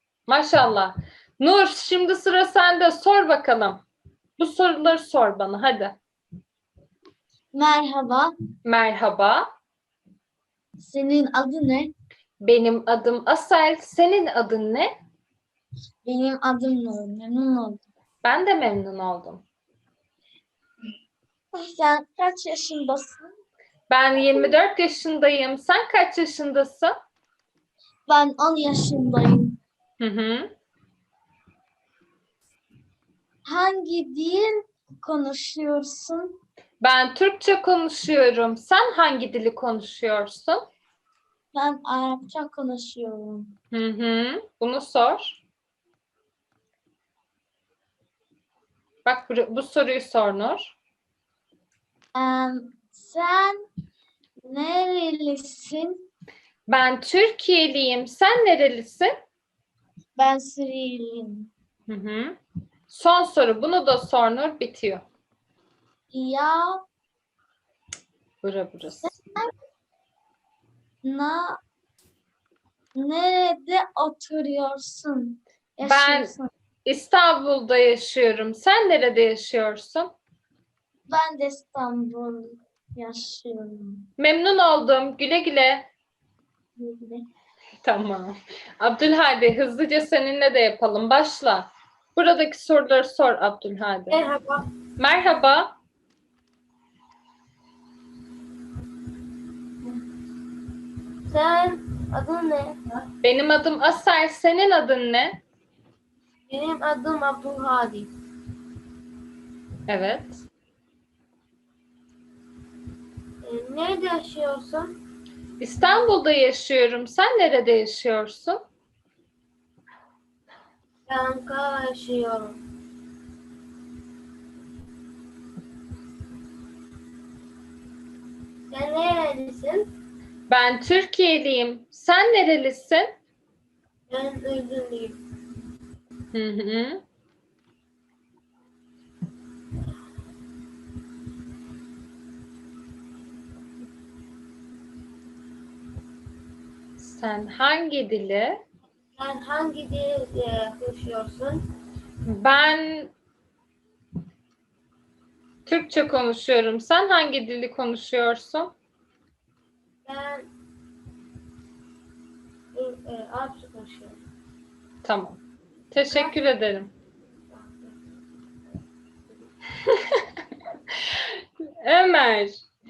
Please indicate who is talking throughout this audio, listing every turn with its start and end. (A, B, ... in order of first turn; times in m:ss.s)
0:00.3-0:03.8 A
0:04.4-0:06.0 A
0:07.5-0:08.3 B
0:08.6-0:09.5 A
0:10.8-0:11.9 B
0:12.4-0:14.9 A
0:16.0-0:17.8 B
0:18.2-0:19.4 A
0:21.5-0:23.3 B
0:23.9-0:27.0 A
0:28.1-0:29.6 B
0:30.0-0:30.5 A
0:33.4-0:36.4 B
0:36.8-0:40.6 A
0:41.5-0:43.5 B
0:43.7-0:45.4 A
0:49.0-0:50.8 A
0:52.1-0:53.6 B
0:54.4-0:56.0 B
0:56.7-0:59.1 A
1:00.2-1:01.5 B
1:01.9-1:02.4 A
1:02.9-1:05.0 A
1:06.1-1:06.8 B
1:08.4-1:09.1 A
1:09.0-1:09.5 B
1:11.0-1:11.6 B
1:13.0-1:16.5 B
1:15.8-1:16.3 A
1:16.9-1:20.1 A
1:21.1-1:24.1 B
1:24.2-1:25.9 A
1:26.8-1:27.3 B
1:27.8-1:34.2 A
1:34.1-1:34.7 C
1:35.0-1:35.8 A
1:41.3-1:42.8 C
1:43.2-1:45.4 A
1:46.5-1:48.1 C
1:49.9-1:50.4 A
1:53.4-1:54.9 C
1:55.6-1:58.6 A
2:01.1-2:02.6 C
2:08.7-2:09.9 C
2:10.5-2:13.1 A
2:14.1-2:15.2 C
2:16.3-2:17.0 A
2:27.0-2:28.6 A
2:29.2-2:31.7 C
2:32.3-2:33.1 A
2:35.7-2:38.7 A
2:40.1-2:40.5 C
2:42.7-2:44.2 C
2:45.0-2:45.4 A
2:45.9-2:46.9 A
2:47.6-2:47.9 C
2:51.8-2:52.6 A